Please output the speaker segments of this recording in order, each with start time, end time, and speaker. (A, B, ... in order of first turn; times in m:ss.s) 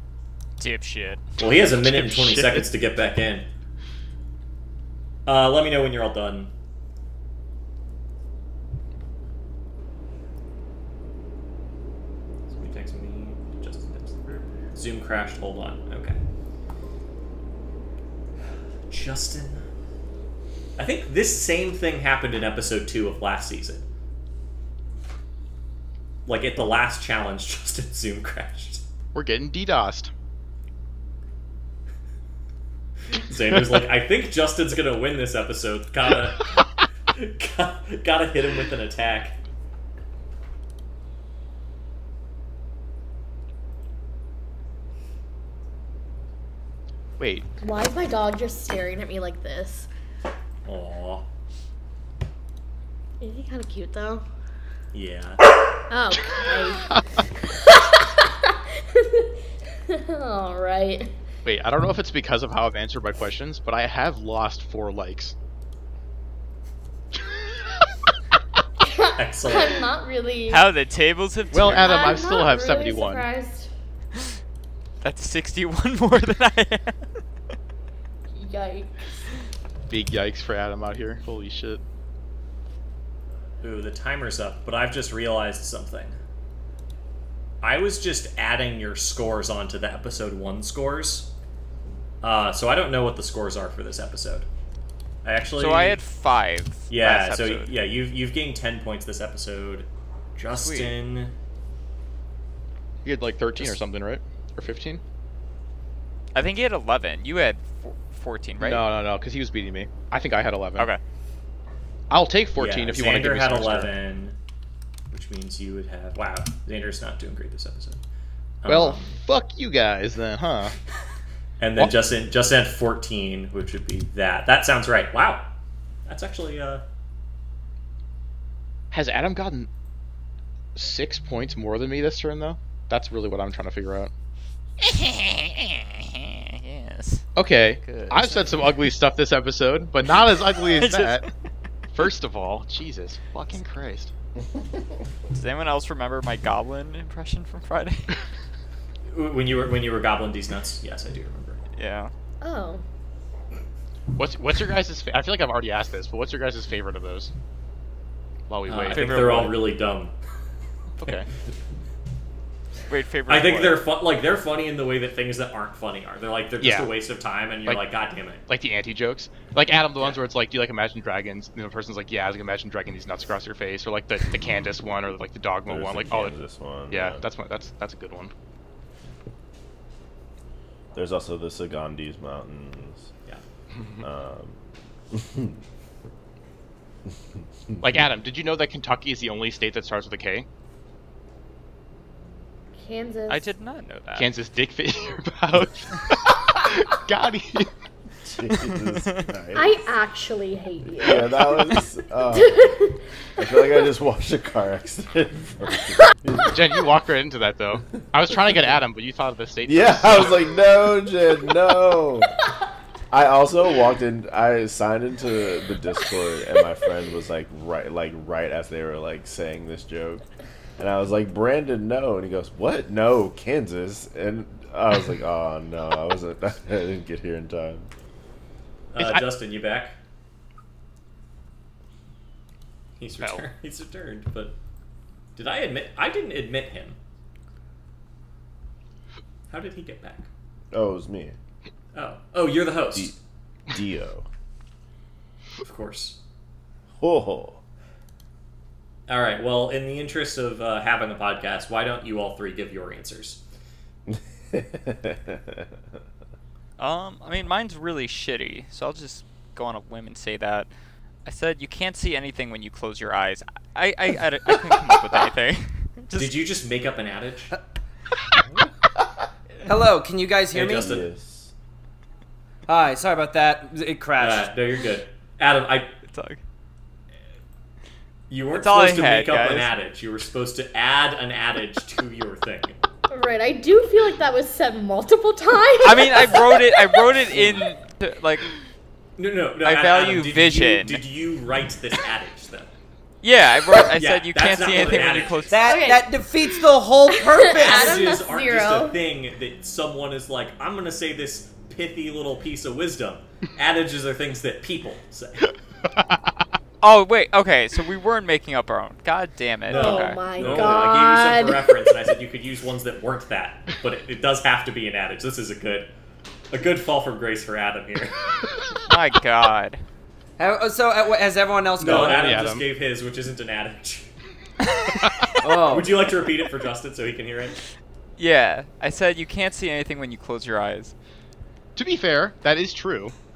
0:00.6-0:01.3 A
0:01.4-0:03.4 B
0:01.8-0:02.7 C
0:05.2-0:06.5 B
0:12.5-0:16.2 B
0:18.9-0:19.6 B
0:20.8-0:23.9 B
0:26.2-0:28.8 B
0:29.1-0:30.1 C
0:33.1-0:39.4 B
0:47.2-0:47.5 C
0:47.6-0:49.9 D
0:50.6-0:51.3 B
0:53.2-0:54.2 D
0:54.9-0:55.5 B
0:55.9-0:56.9 D
0:57.5-1:01.1 D
1:01.4-1:05.3 C
1:08.8-1:10.7 D
1:09.2-1:09.9 B
1:10.5-1:12.3 A
1:11.5-1:13.3 C
1:11.7-1:13.7 D
1:15.0-1:17.2 A
1:18.3-1:19.1 D
1:19.9-1:21.8 C
1:23.6-1:26.2 B
1:27.6-1:31.3 B
1:32.2-1:34.5 B
1:35.2-1:36.0 B
1:35.6-1:37.8 A
1:36.9-1:41.3 B
1:40.5-1:41.0 A
1:43.0-1:45.0 C
1:46.3-1:48.9 A
1:48.6-1:50.9 C
1:52.1-1:53.9 C
1:52.6-1:54.4 B
1:55.1-1:58.0 B
1:58.6-1:59.2 B
1:58.6-2:00.7 C
2:01.6-2:05.5 B
2:06.0-2:06.8 B
2:08.9-2:09.7 C
2:10.7-2:14.1 C
2:14.8-2:18.8 A
2:17.4-2:21.3 C
2:20.1-2:21.3 A
2:21.9-2:24.1 C
2:25.3-2:28.2 A
2:29.1-2:31.6 B
2:31.8-2:32.1 A
2:32.4-2:32.8 D
2:34.1-2:37.3 C
2:38.5-2:39.6 C
2:38.7-2:40.1 B
2:38.8-2:39.6 A
2:41.0-2:41.3 C
2:42.9-2:43.8 A
2:43.3-2:48.4 B
2:46.6-2:46.9 C
2:48.5-2:56.4 C
2:55.7-2:57.2 E
2:56.9-2:58.3 C
3:00.9-3:03.1 E
3:04.0-3:04.6 E
3:05.1-3:05.6 E
3:07.8-3:10.5 C
3:12.8-3:13.5 D
3:13.3-3:14.4 A
3:14.1-3:17.7 C
3:18.2-3:19.8 E
3:18.5-3:19.2 A
3:19.5-3:21.7 D
3:21.0-3:22.7 E
3:22.3-3:23.0 D
3:23.4-3:26.5 E
3:26.4-3:30.5 C
3:29.7-3:32.3 E
3:33.1-3:40.2 E
3:40.8-3:47.9 E
3:48.9-3:50.0 B
3:49.0-3:49.2 C
3:53.0-3:54.6 B
3:55.4-3:57.0 B
3:59.5-4:00.3 B
4:00.7-4:01.4 E
4:01.9-4:03.2 B
4:03.7-4:04.2 E
4:05.6-4:06.2 B
4:07.0-4:07.6 E
4:09.1-4:13.4 B
4:14.1-4:15.7 E
4:16.8-4:20.7 A
4:21.2-4:26.4 A
4:26.2-4:27.5 B
4:29.6-4:30.9 F
4:30.5-4:31.1 B
4:30.6-4:31.5 E
4:32.7-4:34.5 F
4:34.2-4:35.9 B
4:36.1-4:36.4 A
4:38.3-4:42.8 B
4:38.5-4:39.7 A
4:43.1-4:47.0 D
4:45.8-4:48.5 A
4:49.2-4:52.7 B
4:49.6-4:51.0 A
4:53.2-4:55.6 A
4:53.8-4:55.6 B
4:55.5-4:58.0 F
4:55.6-4:56.5 D
4:57.1-4:59.0 D
4:57.6-5:05.5 B
5:06.8-5:10.8 A
5:09.7-5:15.9 B
5:09.7-5:11.9 D
5:16.5-5:18.2 B
5:18.8-5:19.8 A
5:20.4-5:22.2 F
5:21.8-5:24.1 B
5:21.8-5:22.6 C
5:24.7-5:25.3 A
5:25.4-5:26.0 F
5:25.6-5:27.6 B
5:28.2-5:30.9 A
5:31.8-5:33.1 C